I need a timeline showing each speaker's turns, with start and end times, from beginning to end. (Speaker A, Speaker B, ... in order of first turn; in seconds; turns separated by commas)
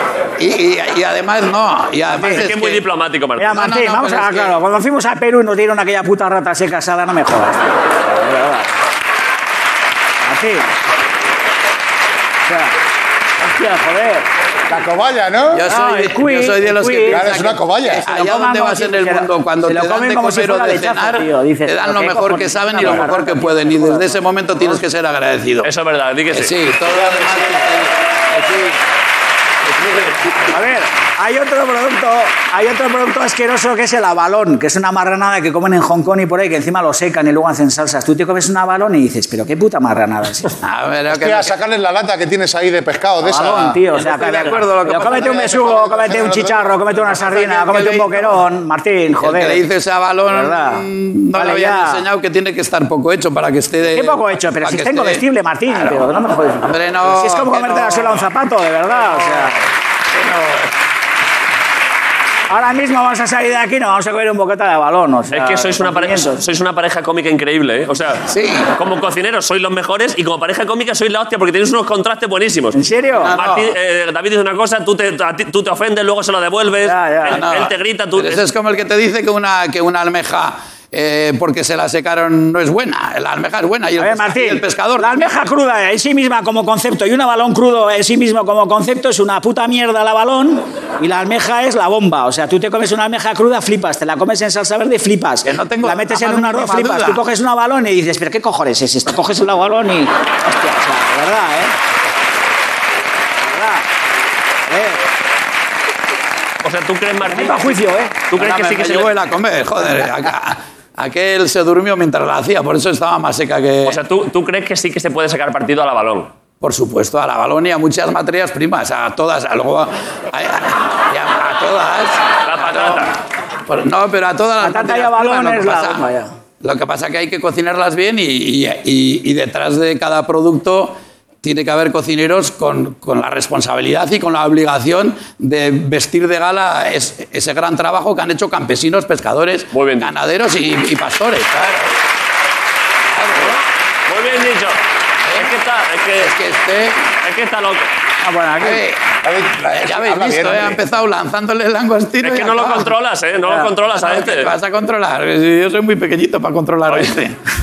Speaker A: 0.4-2.9, Speaker B: 2.1-2.5, Speaker C: 2.3-3.7, Speaker B: 3.4-8.7, Speaker A: 3.4-4.6, Speaker B: 10.2-10.7, Speaker B: 12.5-12.8, Speaker B: 13.4-14.3, Speaker D: 14.7-15.7, Speaker A: 15.5-25.7, Speaker B: 15.7-17.3, Speaker D: 17.1-18.1, Speaker B: 18.0-24.7, Speaker C: 25.6-26.6, Speaker A: 26.3-28.8, Speaker B: 26.8-27.5, Speaker A: 29.7-30.6, Speaker B: 30.4-40.5, Speaker A: 40.6-41.5, Speaker D: 41.1-43.9, Speaker B: 43.2-49.6, Speaker A: 43.9-46.0, Speaker D: 44.4-47.1, Speaker A: 47.1-48.4, Speaker A: 49.2-58.3, Speaker B: 50.3-52.0, Speaker B: 53.8-59.6, Speaker A: 59.0-59.5, Speaker A: 60.1-60.7, Speaker B: 62.5-66.4, Speaker C: 65.3-72.8, Speaker A: 68.2-68.7, Speaker B: 72.7-73.3, Speaker A: 73.2-73.7, Speaker C: 73.3-78.4, Speaker B: 76.8-77.5, Speaker A: 77.3-85.2, Speaker B: 84.0-101.8, Speaker A: 95.5-97.2, Speaker B: 103.4-103.9, Speaker B: 104.7-105.0, Speaker C: 106.6-109.1, Speaker B: 107.2-108.3, Speaker A: 108.3-114.0, Speaker C: 113.8-116.3, Speaker A: 116.6-123.1, Speaker C: 122.4-123.2, Speaker A: 123.7-126.0, Speaker B: 124.6-126.3, Speaker A: 126.6-142.0, Speaker C: 139.7-140.1, Speaker A: 143.1-143.6, Speaker C: 144.1-144.8, Speaker C: 145.4-146.3, Speaker A: 146.2-147.1, Speaker C: 147.2-147.9, Speaker B: 148.2-148.8, Speaker A: 148.6-149.0, Speaker D: 149.2-150.8, Speaker A: 149.7-152.9, Speaker C: 152.2-154.5, Speaker B: 153.4-153.7, Speaker A: 153.8-157.4